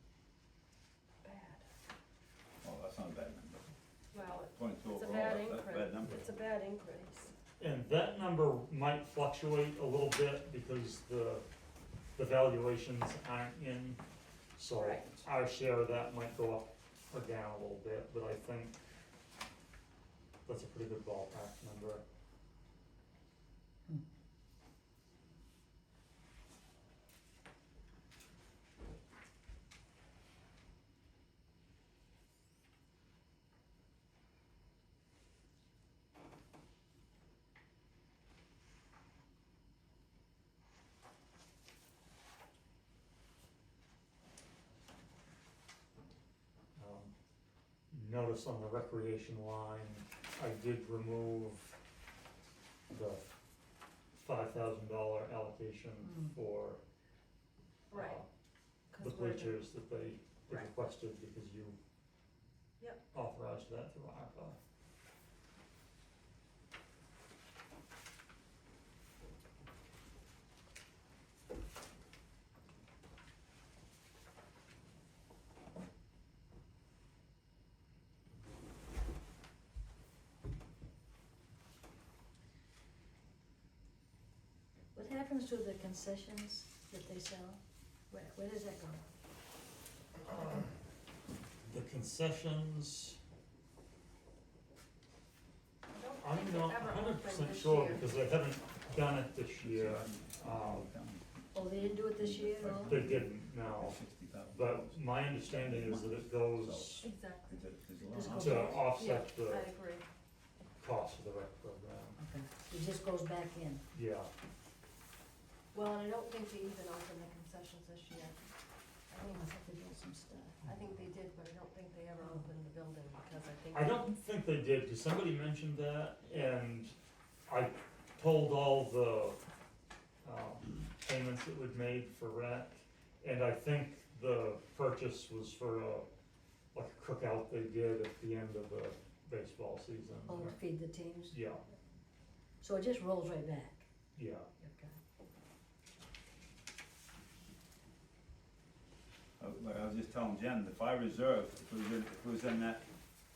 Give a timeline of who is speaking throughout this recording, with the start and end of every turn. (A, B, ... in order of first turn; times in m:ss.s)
0:01.2-0:01.7 A
0:02.6-0:03.7 B
0:04.1-0:07.3 A
0:04.6-0:06.3 B
0:07.6-0:11.5 C
0:12.2-0:14.0 C
0:14.6-0:18.8 C
0:14.8-0:15.2 A
0:20.4-0:22.0 C
0:46.8-0:47.1 C
0:47.9-0:51.8 C
0:52.9-0:53.2 C
0:54.2-0:56.8 C
0:56.0-0:56.3 D
0:57.9-0:58.2 A
0:57.9-0:58.3 C
0:58.9-0:59.6 A
0:59.0-1:01.8 C
1:03.1-1:04.6 C
1:24.9-1:27.6 D
1:28.1-1:29.1 D
1:30.3-1:30.7 C
1:31.7-1:33.2 C
1:35.9-1:38.2 A
1:36.2-1:40.9 C
1:39.6-1:48.9 B
1:41.5-1:43.0 D
1:42.9-1:47.1 C
1:47.0-1:47.6 A
1:48.0-1:48.9 D
1:48.3-1:49.7 C
1:48.8-1:50.1 A
1:50.8-1:52.2 C
1:52.2-1:53.8 D
1:53.9-1:54.3 C
1:55.7-1:58.4 A
1:59.1-1:59.5 A
1:59.2-2:00.6 D
2:00.6-2:04.1 A
2:03.7-2:07.0 C
2:07.5-2:09.4 C
2:10.2-2:16.1 C
2:16.7-2:20.6 C
2:20.3-2:21.4 D
2:21.3-2:21.6 C
2:22.6-2:23.9 D
2:24.2-2:24.5 C
2:24.6-2:24.9 D
2:29.4-2:32.8 B